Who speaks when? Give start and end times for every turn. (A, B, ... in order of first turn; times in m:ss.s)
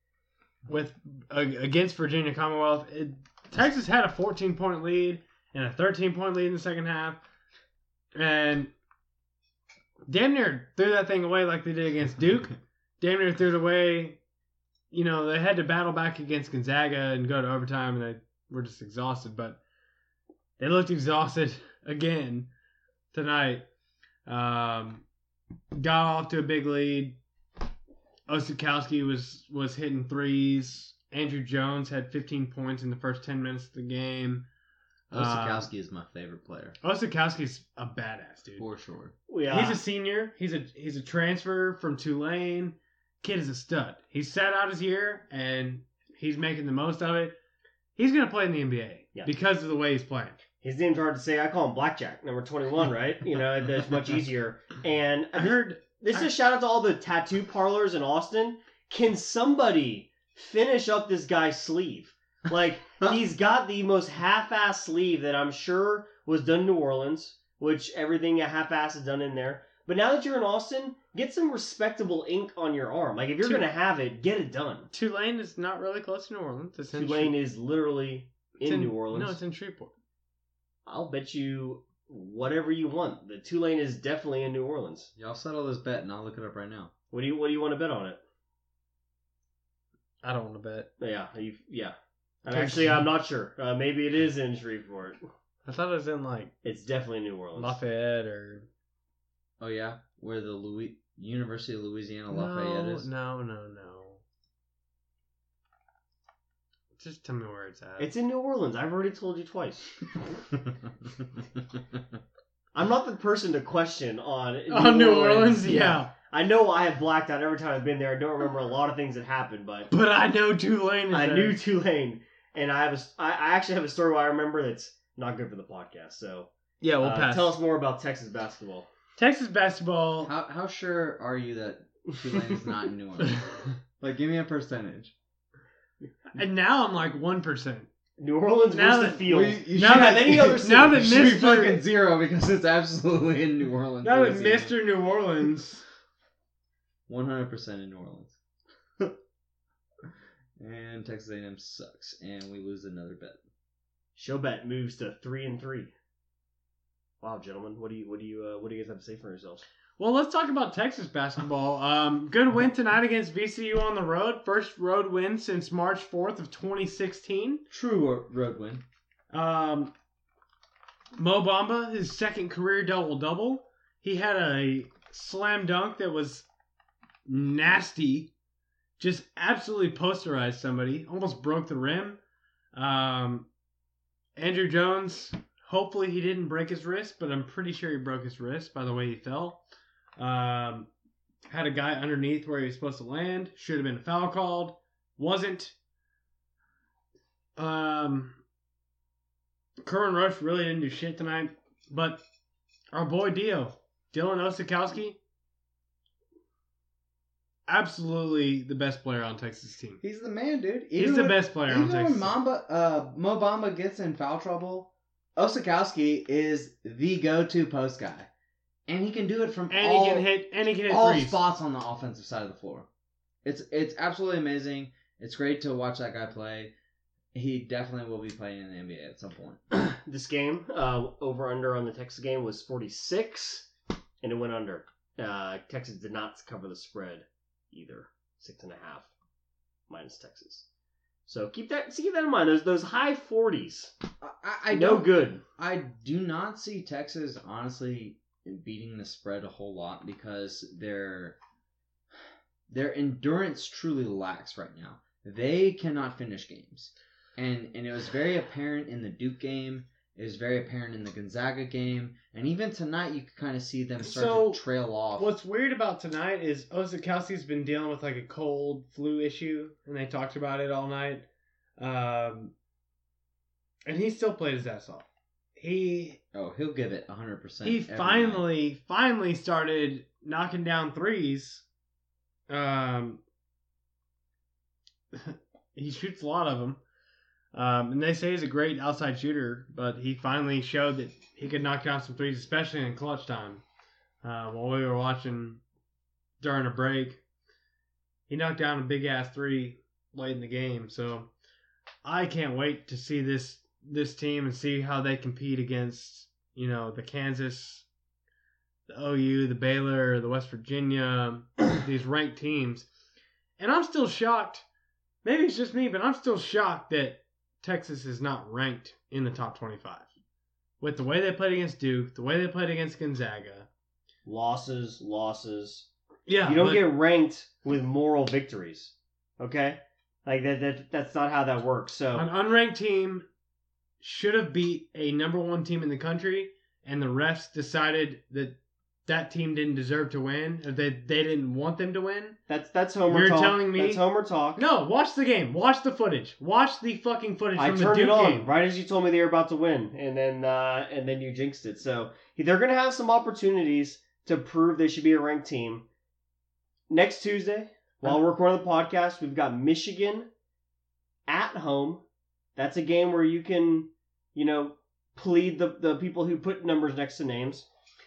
0:00.7-0:07.2 A
0:08.1-0:08.7 A
0:10.1-0:14.2 A
0:14.9-0:19.6 A
0:20.6-0:22.5 A
0:23.1-0:23.6 A
0:24.2-0:25.0 A
0:25.8-0:27.2 A
0:28.3-0:34.4 A
0:35.1-0:36.8 B
0:35.1-0:35.7 A
0:36.8-0:38.7 A
0:38.6-0:39.1 B
0:39.3-0:39.8 C
0:39.5-0:47.3 A
0:48.0-0:50.4 A
0:50.6-1:14.9 C
0:55.4-0:56.3 A
1:14.9-1:17.3 A
1:16.9-1:19.4 C
1:18.6-1:19.9 A
1:20.8-1:25.1 C
1:25.2-1:26.9 B
1:27.1-1:28.2 C
1:30.2-1:30.9 A
1:31.0-1:35.2 C
1:32.5-1:33.1 A
1:35.6-1:36.5 A
1:36.6-1:37.8 C
1:37.6-1:38.7 A
1:39.6-1:43.1 B
1:42.3-1:44.2 A
1:47.0-1:48.1 A
1:48.0-1:49.9 C
1:52.7-1:59.9 C
1:54.7-1:56.1 A
1:59.9-2:01.6 A
2:01.1-2:06.5 C
2:06.8-2:07.6 A
2:07.0-2:08.9 C
2:09.2-2:10.3 A
2:10.2-2:13.4 B
2:12.3-2:12.7 C
2:14.0-2:15.1 B
2:16.3-2:17.9 A
2:18.2-2:20.4 C
2:18.7-2:21.8 A
2:19.2-2:24.8 B
2:24.0-2:25.8 A
2:27.1-2:28.4 B
2:30.6-2:33.4 B
2:34.2-2:35.9 C
2:37.2-2:39.6 C
2:40.0-2:47.6 A
2:47.7-2:48.8 B
2:49.3-2:49.9 A
2:51.2-2:56.4 A
2:57.3-2:58.3 A
2:59.0-3:02.2 A
3:02.7-3:03.5 A
3:04.4-3:09.6 A
3:10.2-3:10.9 A
3:11.5-3:15.7 A
3:17.6-3:18.4 A
3:19.8-3:22.2 A
3:22.9-3:25.2 A
3:27.7-3:30.0 A
3:30.0-3:38.3 B
3:31.0-3:32.4 A
3:38.9-3:42.9 B
3:39.7-3:41.4 A
3:43.4-3:46.7 B
3:47.3-3:49.6 B
3:49.7-3:53.7 C
3:54.2-3:59.1 C
3:59.9-4:00.7 C
4:01.2-4:03.9 C
4:04.2-4:11.4 B
4:04.7-4:05.4 C
4:12.7-4:25.3 B
4:24.0-4:24.6 A
4:25.1-4:31.2 A
4:31.8-4:32.5 A
4:33.9-4:35.0 A
4:35.6-4:36.2 A
4:36.3-4:38.5 B
4:37.6-4:41.6 A
4:42.5-4:43.2 A
4:45.1-4:46.8 A
4:47.5-4:53.6 A
4:54.2-4:55.6 A
4:56.4-4:57.2 A
4:58.3-5:01.3 A
5:02.0-5:07.8 A
5:08.9-5:12.8 A
5:13.6-5:14.6 A
5:15.2-5:20.1 A
5:20.8-5:23.7 A
5:24.2-5:25.9 C
5:26.3-5:26.8 A
5:26.4-5:32.3 C
5:32.1-5:33.2 A
5:34.0-5:42.4 A
5:42.5-5:44.6 C
5:43.1-5:44.0 A
5:44.6-5:48.5 A
5:47.6-5:55.8 C
5:56.9-6:00.3 C
6:01.3-6:02.0 C
6:02.6-6:07.6 C